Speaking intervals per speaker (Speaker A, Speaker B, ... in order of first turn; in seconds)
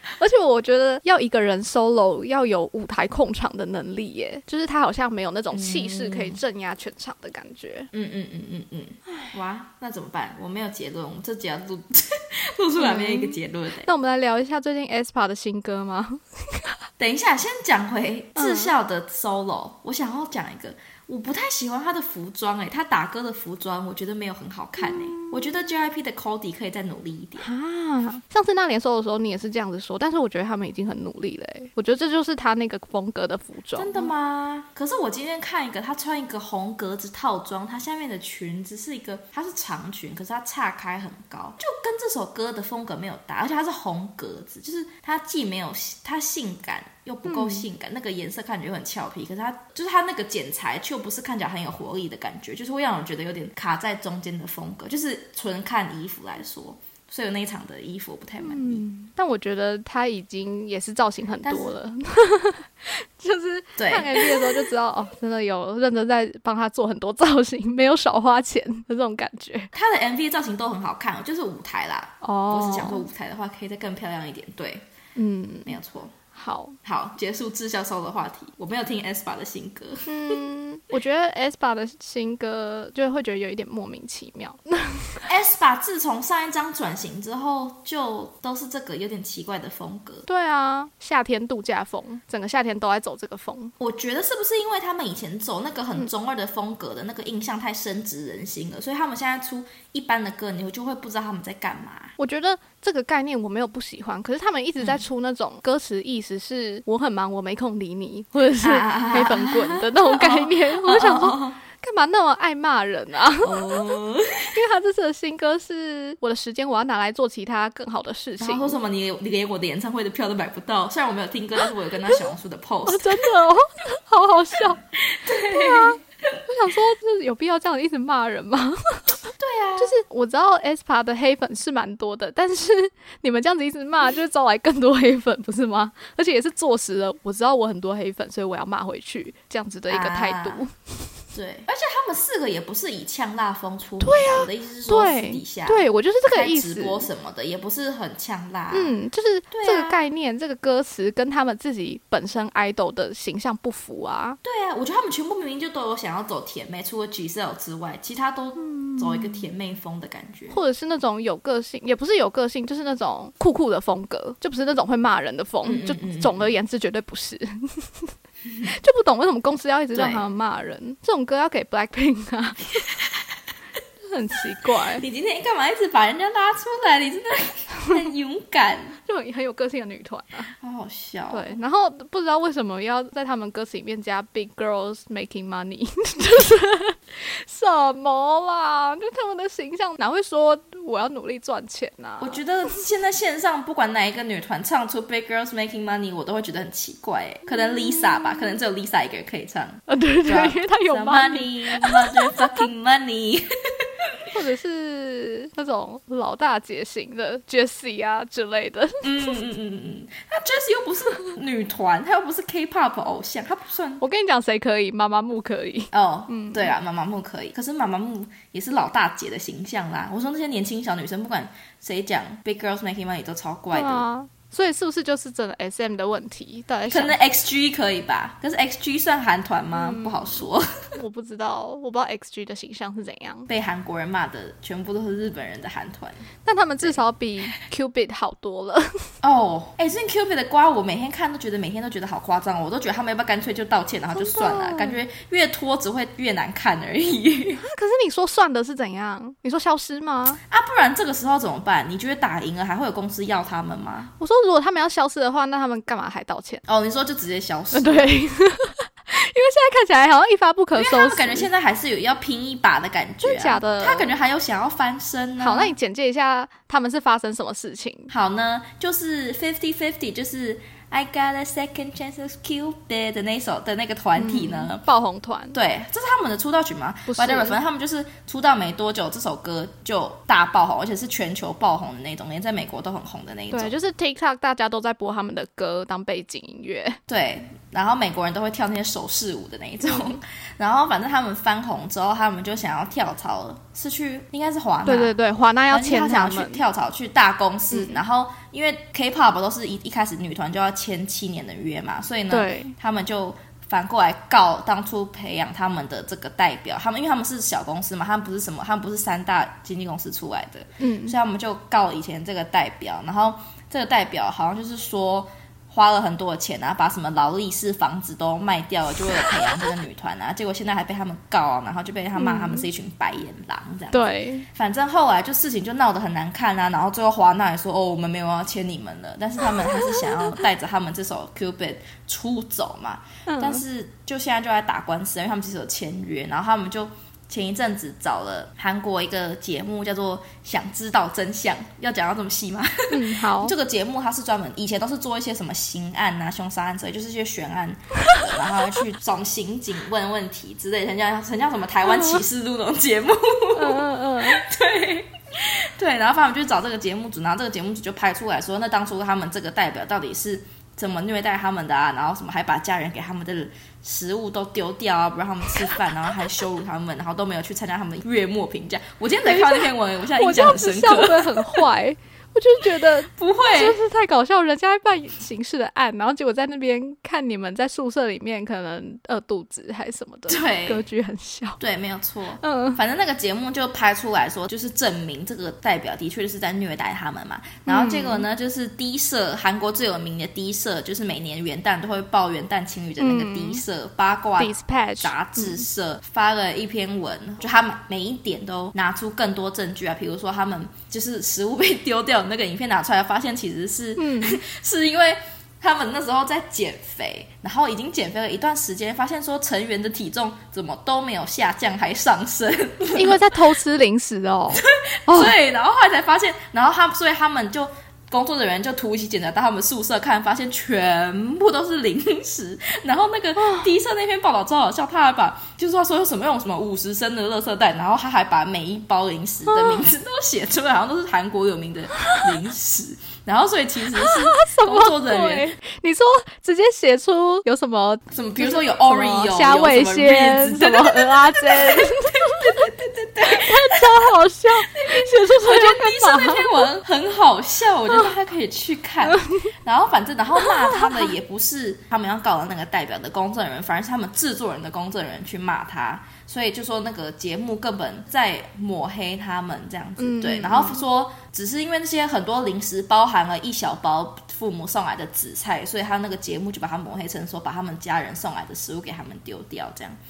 Speaker A: 0.2-7.9, 12.8-16.8, 18.4-18.7, 24.8-25.5, 27.4-34.1, 47.3-47.7, 58.4-69.7, 72.2-73.1, 75.2-75.7, 76.3-76.8, 80.1-85.3, 90.3-93.7, 102.2-113.8, 114.5-118.8, 122.9-129.2, 129.8-140.8, 144.0-147.1, 148.7-154.4, 158.6-159.4, 160.5-168.1, 168.6-172.9, 174.0-175.1, 179.1-180.5, 181.3-192.4, 197.6-198.4, 199.9-202.6, 204.3-209.4, 214.0-216.7, 223.7-227.2, 229.7-230.4, 231.0-233.5, 236.4-239.1, 244.1-245.0, 247.6-250.4, 254.2-256.6, 257.7-261.5, 263.2-264.1, 265.4-268.1, 274.2-275.6, 277.1-277.6, 283.5-287.0, 289.9-290.2, 294.9-296.6, 297.7-298.0, 302.3-302.8, 310.8-311.2, 322.2-322.7, 323.9-324.5, 333.3-333.6, 342.9-343.6, 353.5-354.4, 369.3-381.6, 382.4-382.8, 387.7-388.3, 393.0-393.6, 394.4-395.6, 404.0-404.4, 412.9-415.3, 423.4-423.6, 429.5-429.9, 434.0-442.7, 443.2-446.7, 449.1-449.5, 450.4-451.1, 460.0-460.8
Speaker B: 5.5-6.4, 7.9-13.9, 17.0-27.5, 33.8-58.9, 61.4-61.8, 63.8-64.7, 69.7-74.8, 75.7-76.2, 76.8-80.3, 85.3-90.3, 93.8-102.2, 108.6-111.6, 113.4-114.5, 118.4-123.3, 125.0-126.4, 129.4-129.9, 139.9-140.6, 141.3-149.0, 149.5-150.0, 154.4-160.6, 165.6-166.5, 169.9-170.2, 175.0-179.0, 180.6-181.6, 192.2-204.2, 209.0-214.0, 215.9-224.1, 226.9-230.9, 233.5-236.3, 239.2-247.6, 250.5-254.1, 256.7-258.2, 260.8-265.7, 268.1-274.8, 275.5-283.7, 287.1-295.1, 295.7-371.7, 372.8-373.8, 380.3-380.8, 381.6-413.4, 414.5-435.6, 438.1-470.0